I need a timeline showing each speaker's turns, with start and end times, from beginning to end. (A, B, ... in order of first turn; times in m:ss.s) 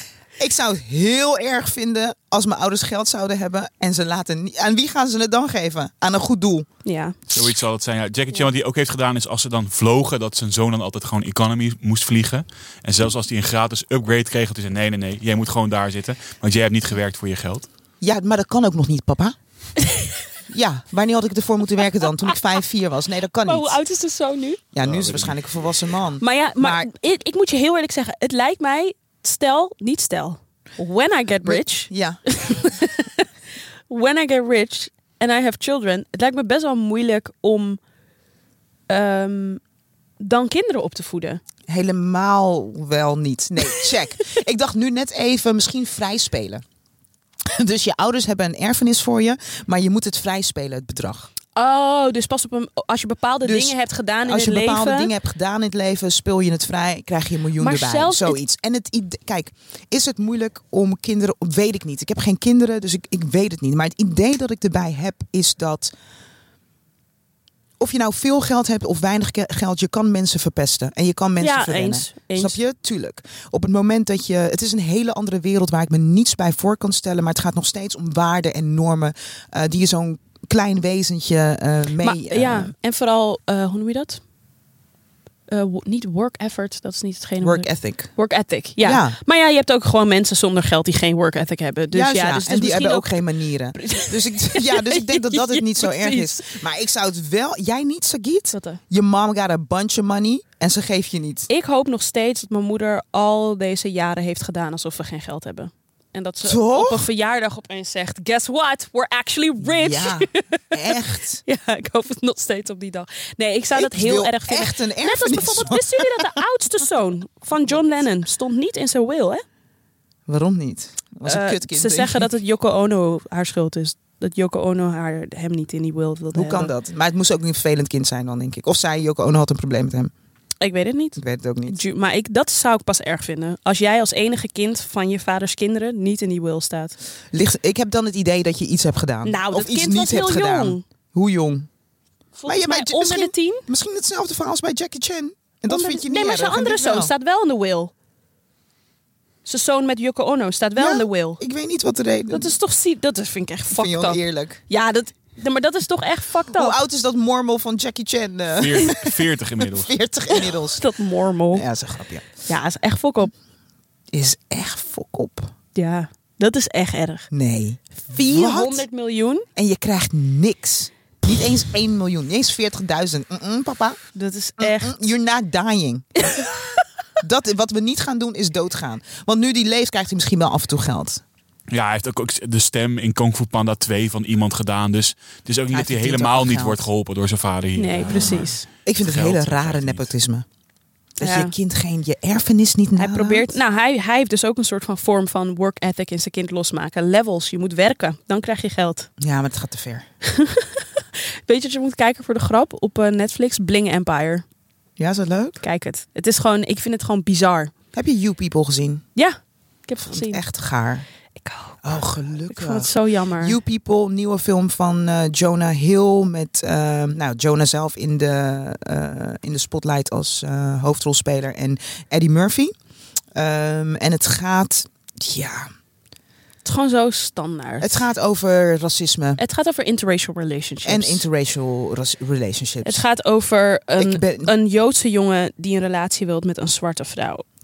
0:00.4-0:06.7 A
0:06.8-0:07.2 B
0:07.3-0:17.7 C
0:18.0-0:19.4 A
0:19.8-0:20.2 B
0:20.5-0:23.8 A
0:23.4-0:24.6 B
0:24.7-0:26.9 A
0:24.8-0:25.4 C
0:26.2-0:33.3 B
0:31.4-0:32.2 A
0:33.9-0:37.8 B
0:38.9-0:39.6 B
0:40.2-0:41.4 B
0:41.7-0:46.6 A
0:47.4-0:51.3 A
0:51.5-0:55.1 B
0:53.4-1:05.9 A
0:57.6-0:58.4 B
1:07.8-1:22.7 A
1:11.4-1:12.6 B
1:22.0-1:24.2 B
1:25.5-1:33.2 B
1:27.4-1:28.1 A
1:28.8-1:29.2 A
1:31.9-1:41.5 A
1:33.7-1:36.6 B
1:38.5-1:38.8 B
1:41.5-1:50.9 B
1:46.4-1:47.1 A
1:49.6-1:51.4 A
1:51.4-1:59.4 B
1:53.7-1:56.3 A
2:00.3-2:02.3 A
2:01.2-2:06.7 B
2:06.3-2:10.1 A
2:10.6-2:16.9 B
2:11.2-2:11.8 A
2:17.3-2:21.7 A
2:19.2-2:20.8 B
2:22.4-2:23.6 B
2:22.4-2:27.1 A
2:25.7-2:27.9 B
2:29.4-2:31.4 B
2:30.8-2:32.5 A
2:32.3-2:36.8 B
2:33.7-2:34.6 A
2:36.5-2:40.8 A
2:38.5-2:40.0 C
2:40.7-2:41.6 B
2:41.5-2:42.3 A
2:42.4-2:43.3 B
2:44.1-2:45.5 A
2:45.7-2:47.3 B
2:47.3-2:48.8 A
2:48.0-2:49.4 B
2:49.6-2:54.0 A
2:54.1-2:54.9 B
2:54.6-2:56.2 A
2:56.2-2:56.6 B
2:57.2-3:01.2 A
3:01.7-3:10.1 C
3:05.7-3:06.8 A
3:07.8-3:08.6 B
3:08.0-3:10.4 A
3:11.2-3:13.6 A
3:11.2-3:11.5 B
3:13.0-3:19.1 B
3:19.2-3:20.0 A
3:20.2-3:24.4 B
3:25.0-3:25.6 A
3:25.6-3:27.7 B
3:27.9-3:29.0 A
3:29.2-3:30.4 B
3:30.0-3:31.0 A
3:31.4-3:33.6 B
3:31.8-3:42.7 A
3:43.3-3:45.7 A
3:46.6-3:47.9 B
3:47.8-3:49.4 A
3:49.4-3:51.2 B
3:50.8-3:53.0 A
3:52.8-3:57.4 B
3:54.0-3:54.5 A